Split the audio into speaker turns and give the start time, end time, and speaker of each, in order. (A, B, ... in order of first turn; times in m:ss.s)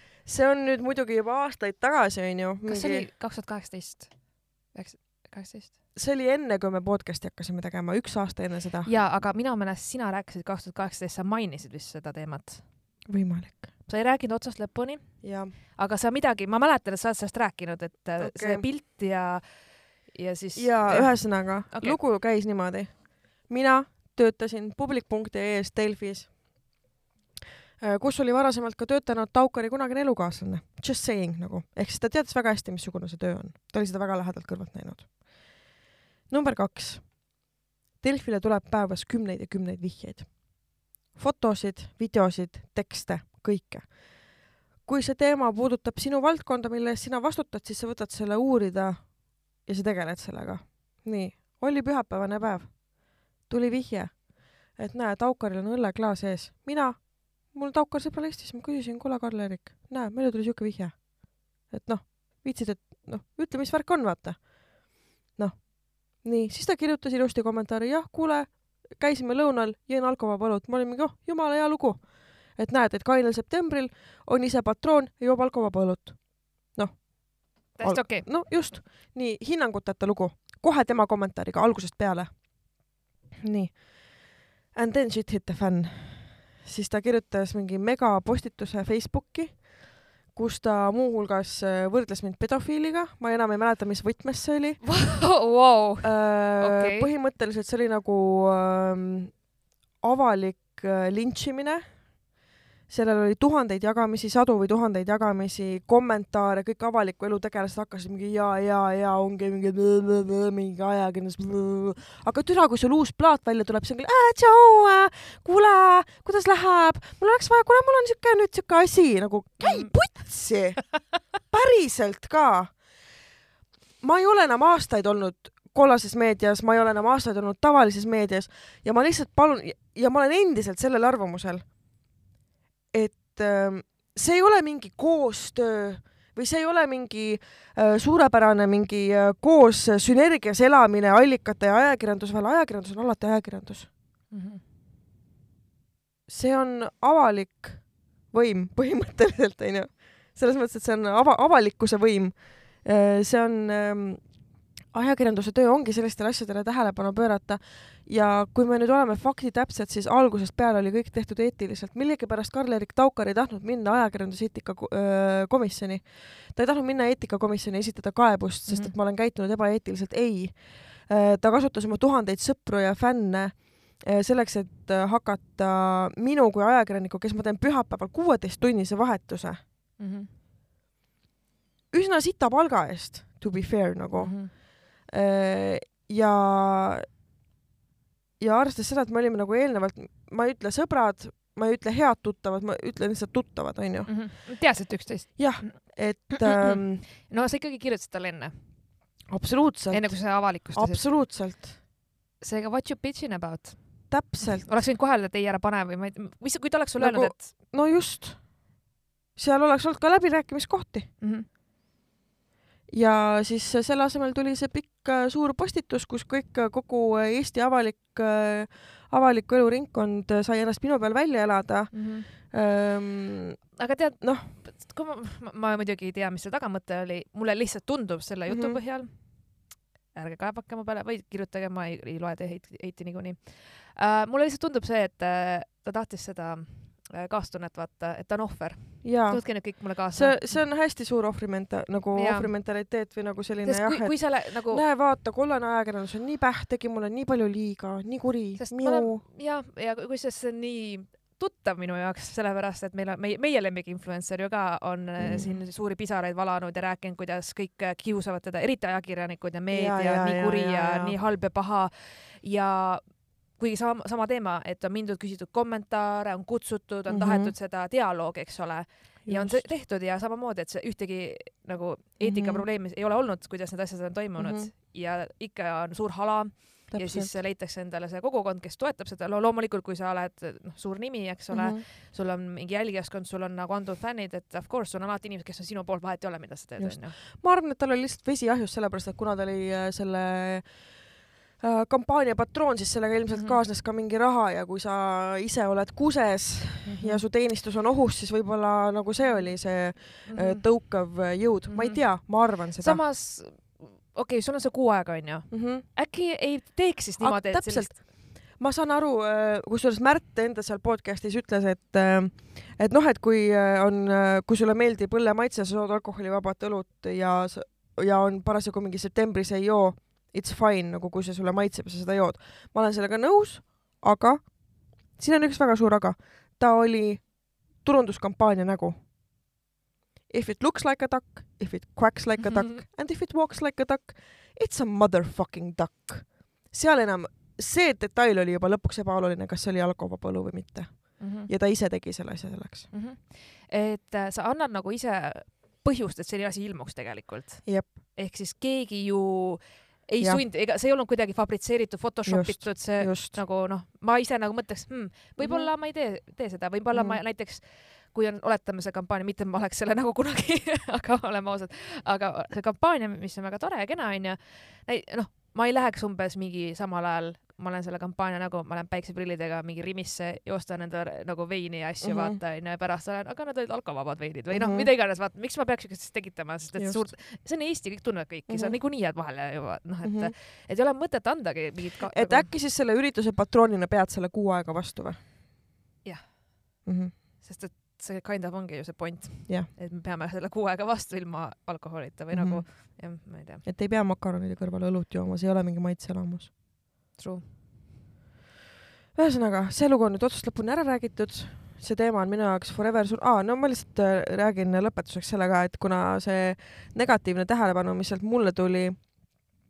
0:00.2-0:03.1 A
0:02.6-0:05.7 B
0:06.0-0:08.9 A
0:08.8-0:13.1 B
0:13.1-0:13.7 A
0:13.8-0:22.0 B
0:15.2-0:15.5 A
0:18.2-0:18.7 A
0:20.6-0:26.8 A
0:27.8-0:35.7 A
0:36.3-1:35.4 A
1:17.7-1:18.3 B
1:34.8-1:37.1 B
1:36.0-1:42.3 A
1:42.9-2:03.0 A
1:59.6-2:00.6 B
2:04.0-2:11.8 A
2:12.9-2:23.9 A
2:24.3-2:24.6 B
2:26.3-2:59.6 A
2:48.7-2:49.0 B
3:00.0-3:00.3 B
3:01.9-3:07.1 A
3:04.2-3:04.5 B
3:08.4-3:14.7 A
3:14.1-3:19.2 B
3:15.4-3:17.0 A
3:19.3-3:21.8 A
3:19.9-3:21.6 B
3:22.4-3:27.7 B
3:24.1-3:24.7 A
3:27.0-3:28.8 A
3:29.4-3:31.1 A
3:31.2-3:31.5 B
3:32.9-3:44.5 A
3:41.9-3:42.5 B
3:43.8-4:00.6 B
3:48.5-3:48.8 A
3:59.0-4:09.2 A
4:02.1-4:03.1 B
4:03.6-4:04.8 B
4:08.6-4:47.2 B
4:15.2-4:15.6 A
4:19.7-4:21.2 A
4:27.1-4:27.6 A
4:29.2-4:29.7 A
4:32.2-4:32.7 A
4:34.4-4:34.7 A
4:36.9-4:37.4 A
4:41.5-4:41.8 A
4:46.8-5:03.0 A
4:53.3-4:53.6 B
4:56.8-4:57.2 B
5:00.2-5:08.0 B
5:05.5-5:05.8 A
5:07.2-5:29.5 A
5:30.3-5:42.9 A
5:32.4-5:32.8 B
5:41.2-5:41.5 B
5:42.9-6:22.5 B
5:47.7-5:47.9 A
5:50.2-5:50.4 A
5:52.2-5:53.4 A
5:55.4-5:55.7 A
5:56.9-5:57.2 A
6:12.0-6:12.4 A
6:14.5-6:14.9 A
6:16.8-6:17.2 A
6:18.5-6:18.8 A
6:20.0-6:20.3 A
6:22.1-6:25.2 A
6:26.0-6:33.6 B
6:26.8-6:27.2 A
6:32.3-6:36.5 A
6:37.2-6:37.5 B
6:39.2-6:49.6 A